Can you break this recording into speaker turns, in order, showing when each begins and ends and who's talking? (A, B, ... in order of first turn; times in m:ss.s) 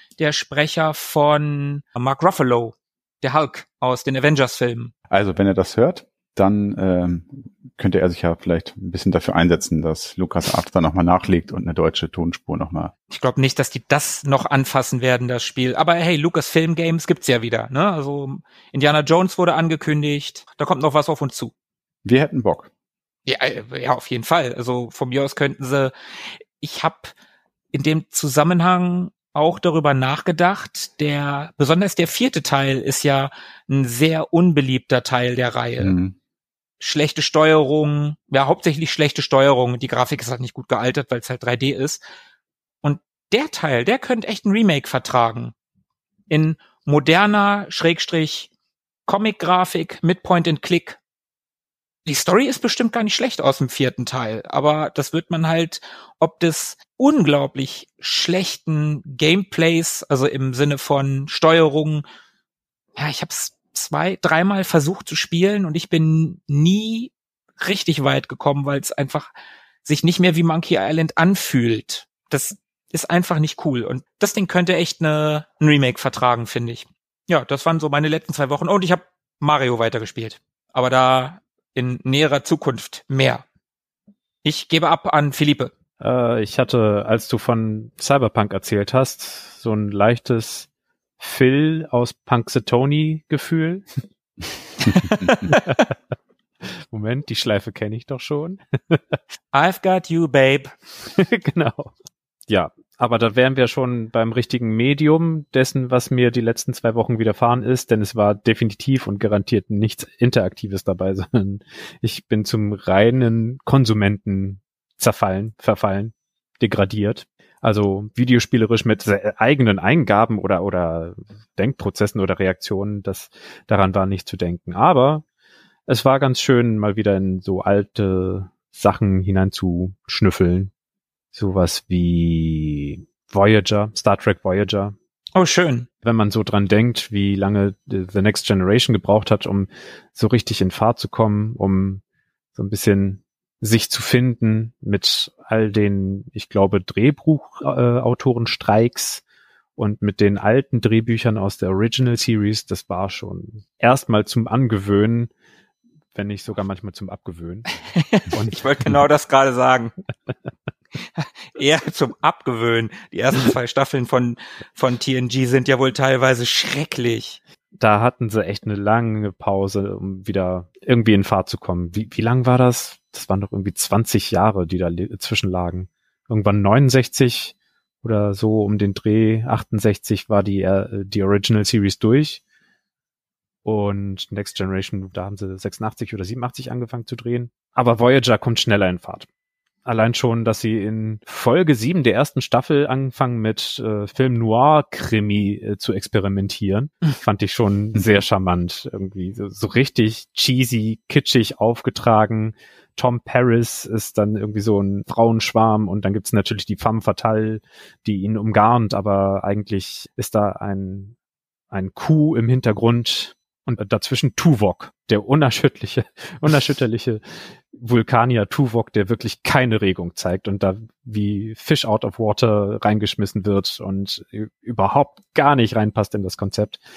0:00.2-0:04.9 A
0:05.1-0:12.9 B
0:13.1-0:21.5 A
0:22.0-0:22.7 B
0:23.2-0:25.9 A
0:26.6-0:27.1 A
0:27.7-0:36.0 A
0:35.8-0:36.2 B
0:36.8-0:42.0 A
0:42.8-0:45.5 A
0:46.3-0:48.5 A
0:49.1-0:51.0 A
0:52.0-1:02.0 A
1:03.0-1:09.3 A
1:09.8-1:23.4 A
1:24.4-1:25.7 A
1:26.0-1:30.7 C
1:31.2-1:33.9 C
1:34.9-1:35.6 A
1:35.5-1:35.8 C
1:36.6-1:39.0 C
1:39.5-1:40.7 A
1:41.1-1:41.9 C
1:42.5-2:05.2 C
2:05.9-2:10.7 C
2:11.3-2:14.9 C
2:15.3-2:15.9 A
2:16.0-2:22.0 C
2:22.5-2:29.2 C
2:29.8-2:35.3 C
2:36.1-2:37.7 C
2:38.0-2:39.9 A
2:41.2-2:47.4 A
2:47.8-3:02.4 C
3:03.6-3:09.3 C
3:09.8-3:31.1 C
3:17.9-3:18.2 B
3:31.7-3:46.8 C